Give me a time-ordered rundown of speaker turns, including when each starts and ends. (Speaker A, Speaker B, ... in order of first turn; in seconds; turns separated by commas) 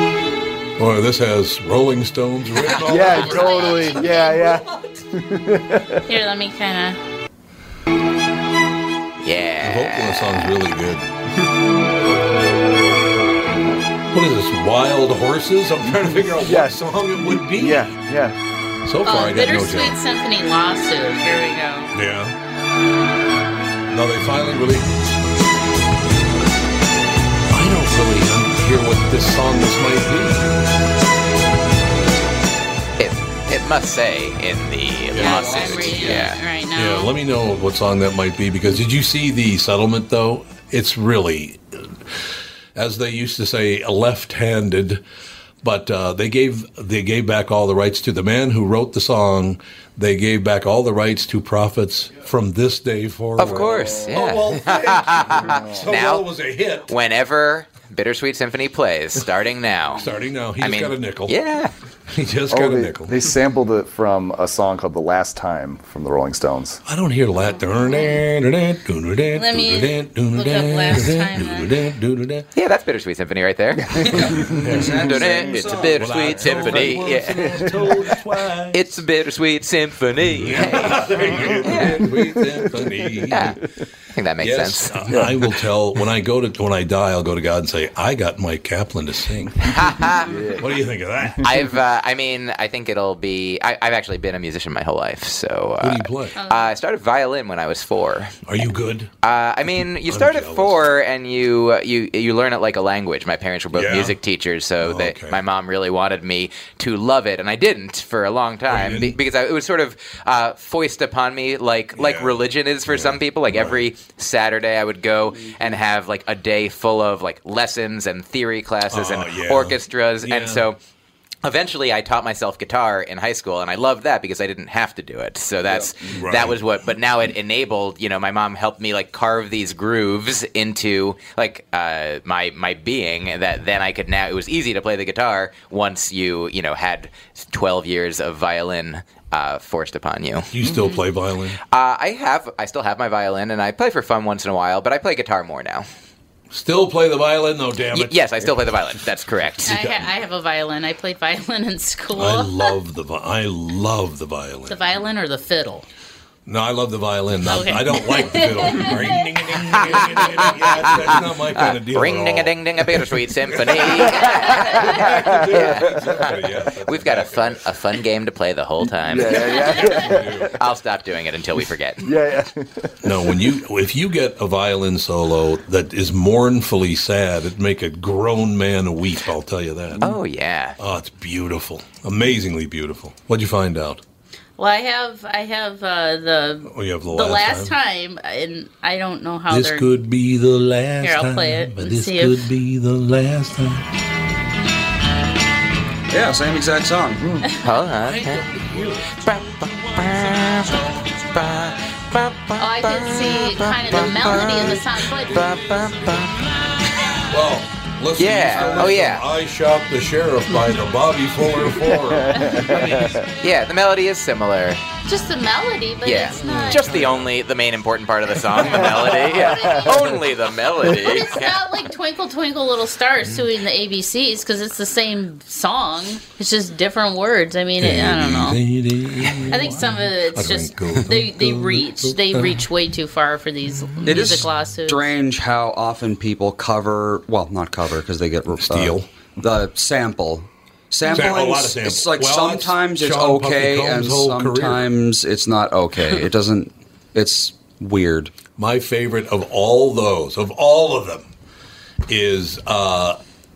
Speaker A: 0.8-3.6, Speaker B: 2.6-4.9, Speaker C: 2.8-6.0, Speaker B: 6.1-7.0, Speaker D: 9.2-10.3, Speaker A: 9.6-11.1, Speaker A: 14.1-17.9, Speaker C: 16.3-18.3, Speaker A: 18.8-20.0, Speaker B: 19.0-21.9, Speaker A: 21.9-22.3, Speaker A: 23.9-24.9, Speaker A: 27.5-30.5, Speaker D: 33.0-36.4, Speaker A: 35.1-36.2, Speaker B: 35.1-37.1, Speaker E: 35.3-36.3, Speaker A: 36.7-42.0, Speaker A: 42.7-45.0, Speaker A: 45.6-56.9, Speaker D: 53.4-56.3, Speaker C: 53.4-54.2, Speaker C: 55.2-55.9, Speaker D: 56.9-60.0, Speaker A: 60.0-61.4, Speaker D: 60.6-61.7, Speaker A: 62.1-63.2, Speaker C: 62.5-66.8, Speaker A: 66.8-72.5, Speaker B: 67.8-68.2, Speaker B: 69.3-71.8, Speaker D: 72.5-74.3, Speaker C: 73.8-75.6, Speaker E: 74.1-76.2, Speaker A: 74.2-79.0, Speaker D: 74.8-77.6, Speaker C: 76.5-78.2, Speaker D: 78.7-82.0, Speaker A: 80.3-83.6, Speaker C: 80.8-83.4, Speaker D: 83.3-83.6, Speaker D: 84.1-85.0, Speaker A: 84.4-89.7, Speaker C: 85.1-85.5, Speaker D: 89.7-90.3, Speaker C: 90.3-90.8, Speaker A: 90.6-91.6, Speaker D: 91.4-98.4, Speaker A: 95.8-96.3, Speaker B: 96.3-96.7, Speaker A: 98.5-99.1, Speaker D: 99.2-120.8, Speaker A: 100.0-100.9, Speaker A: 103.7-104.2, Speaker A: 104.8-105.4, Speaker A: 108.7-109.2, Speaker A: 111.9-113.8, Speaker A: 118.9-120.7, Speaker D: 121.4-140.5, Speaker A: 126.1-126.6, Speaker A: 140.5-141.6, Speaker D: 141.7-145.8, Speaker A: 146.5-148.6, Speaker D: 147.9-149.7, Speaker A: 149.7-150.1, Speaker B: 149.7-152.7, Speaker A: 152.1-154.8, Speaker B: 154.7-155.8, Speaker A: 156.4-162.7, Speaker B: 157.4-159.3, Speaker B: 160.1-160.6, Speaker D: 161.6-169.7, Speaker A: 163.5-167.6, Speaker C: 164.1-166.2, Speaker C: 168.9-170.6, Speaker A: 169.7-170.5, Speaker D: 170.5-172.1, Speaker C: 172.0-173.3, Speaker A: 173.0-180.1, Speaker D: 180.0-180.8, Speaker A: 180.8-184.0, Speaker B: 184.6-189.9, Speaker A: 186.7-187.7, Speaker A: 189.5-193.8, Speaker B: 191.0-192.5, Speaker E: 196.1-197.4, Speaker D: 197.6-198.4, Speaker A: 197.9-200.8, Speaker D: 199.2-206.3, Speaker B: 202.6-205.5, Speaker A: 207.3-213.2, Speaker D: 208.2-209.2, Speaker C: 211.8-213.2, Speaker D: 213.4-214.8, Speaker B: 215.1-216.9, Speaker D: 216.0-221.6, Speaker A: 216.3-217.4, Speaker C: 218.8-220.1, Speaker B: 219.3-220.1, Speaker B: 220.8-228.6, Speaker A: 227.8-232.6, Speaker B: 229.5-235.1, Speaker A: 234.0-234.5, Speaker E: 234.0-248.3, Speaker A: 238.5-239.1, Speaker A: 241.1-244.9, Speaker A: 248.6-251.3, Speaker A: 252.1-253.2